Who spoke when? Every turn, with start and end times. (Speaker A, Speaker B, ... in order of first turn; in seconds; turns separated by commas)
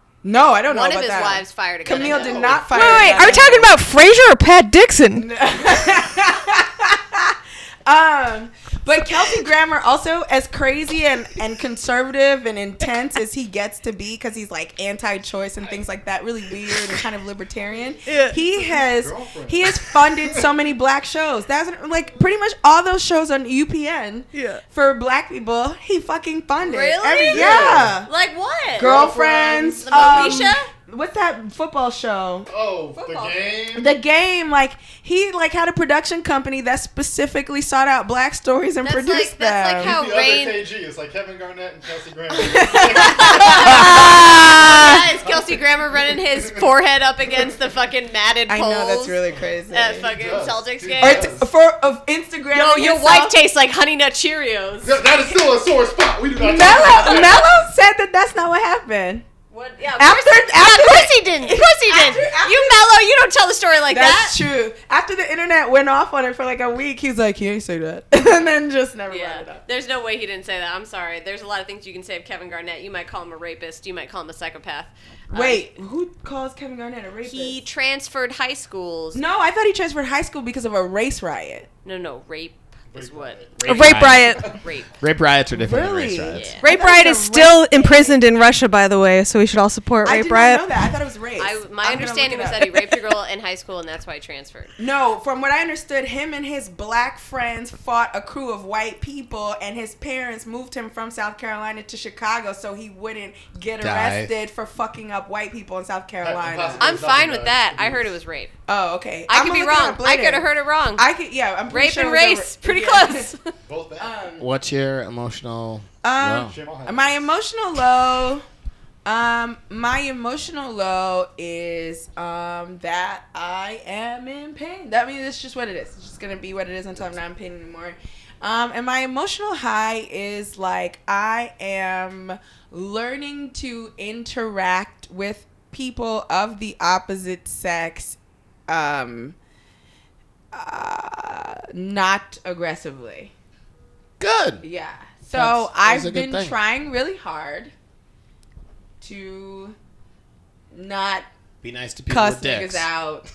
Speaker A: 0.2-3.7, Speaker B: 0.7-3.4, Speaker C: 1.9-2.6, Speaker D: 2.7-5.3, Speaker A: 5.2-28.1, Speaker D: 18.1-18.4, Speaker C: 18.5-20.5, Speaker D: 24.3-24.6, Speaker B: 26.6-29.1, Speaker C: 27.3-28.0, Speaker A: 28.8-32.5, Speaker C: 28.8-30.5, Speaker B: 29.9-30.7, Speaker C: 32.5-34.0, Speaker B: 32.9-33.5, Speaker A: 33.7-40.0, Speaker B: 38.8-40.6, Speaker C: 39.8-46.7, Speaker A: 42.3-44.9, Speaker B: 43.0-49.2, Speaker A: 48.5-50.1, Speaker B: 49.7-51.4, Speaker C: 50.0-51.5, Speaker A: 51.0-53.4, Speaker B: 52.5-55.0, Speaker C: 54.8-57.5, Speaker A: 56.4-59.3, Speaker B: 57.0-57.3, Speaker B: 59.5-64.4, Speaker A: 60.0-62.8, Speaker A: 63.9-69.6, Speaker B: 69.1-75.7, Speaker A: 75.3-77.6, Speaker B: 77.2-79.2, Speaker A: 79.1-81.7, Speaker B: 81.8-83.6, Speaker C: 82.9-84.6, Speaker D: 83.7-84.5, Speaker E: 83.7-86.6, Speaker B: 84.4-84.9, Speaker A: 85.5-88.2, Speaker B: 86.3-86.6, Speaker D: 86.6-90.6, Speaker A: 90.0-93.0, Speaker B: 91.4-94.7, Speaker A: 94.8-107.0, Speaker E: 103.8-104.3, Speaker C: 106.2-108.1, Speaker B: 106.8-108.5, Speaker A: 108.7-113.3, Speaker B: 109.3-111.1, Speaker B: 111.7-113.5, Speaker C: 113.7-114.2, Speaker A: 114.0-114.5, Speaker E: 114.4-116.5, Speaker A: 116.0-118.4, Speaker C: 116.4-117.2, Speaker A: 119.0-139.4, Speaker A: 140.5-143.3, Speaker E: 144.2-144.6, Speaker A: 144.6-147.7, Speaker E: 145.3-146.6, Speaker A: 149.0-149.8, Speaker A: 150.7-151.3, Speaker E: 151.6-152.8, Speaker A: 152.1-153.2